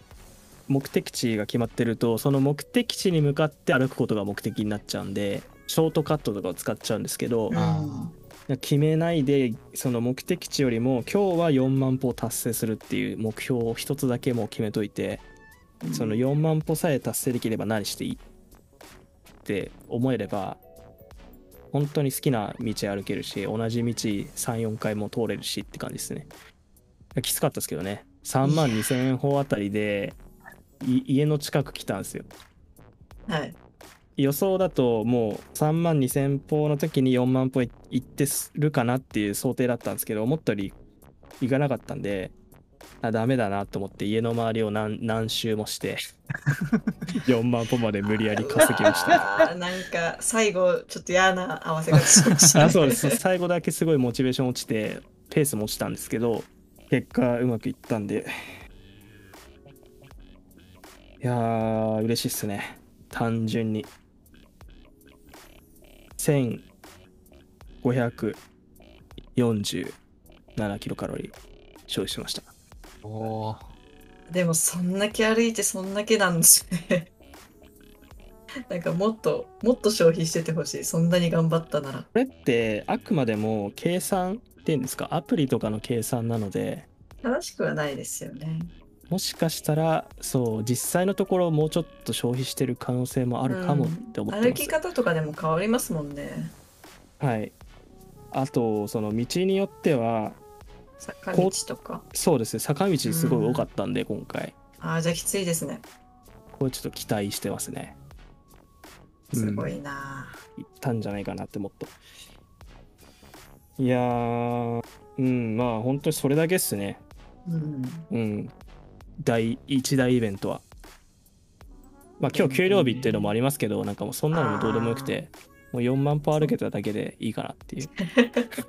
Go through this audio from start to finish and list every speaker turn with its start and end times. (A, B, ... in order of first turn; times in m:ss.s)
0:00.7-0:07.6 A
0:07.5-0:08.1 B
0:07.5-0:08.1 C
0:08.5-0:15.2 A
0:15.8-0:16.3 B
0:15.9-0:18.2 A
0:19.4-0:20.6 A
0:21.7-0:26.3 A
0:27.1-0:30.2 A
0:28.4-0:28.9 B
0:30.8-0:32.3 A
0:33.3-0:33.6 B
0:34.2-0:40.8 A
0:41.4-0:42.3 A
0:43.0-0:46.0 A
0:46.5-0:47.2 C
0:47.2-0:49.2 A
0:48.3-0:53.2 B
0:48.7-0:49.2 C
0:52.5-0:58.3 A
1:01.2-1:03.9 A
1:06.2-1:06.6 A
1:07.8-1:08.4 A
1:09.3-1:10.0 A
1:10.6-1:11.4 A
1:11.9-1:12.5 A
1:13.0-1:13.7 C
1:14.3-1:17.1 B
1:18.7-1:22.1 B
1:22.1-1:26.9 A
1:27.2-1:28.7 B
1:29.1-1:34.8 A
1:33.4-1:36.5 B
1:37.2-1:37.6 A
1:38.3-1:40.4 A
1:41.0-1:42.0 B
1:41.3-1:41.6 A
1:42.1-1:44.5 A
1:43.0-1:43.7 B
1:44.8-1:45.8 B
1:46.5-1:48.0 A
1:49.3-1:49.7 A
1:49.3-1:50.4 B
1:50.6-1:51.9 A
1:53.8-1:57.0 A
1:57.4-1:58.1 B
1:58.1-1:58.5 A
1:59.2-2:00.6 A
2:02.2-2:07.9 A
2:02.3-2:03.3 B
2:04.3-2:05.2 B
2:08.0-2:08.5 B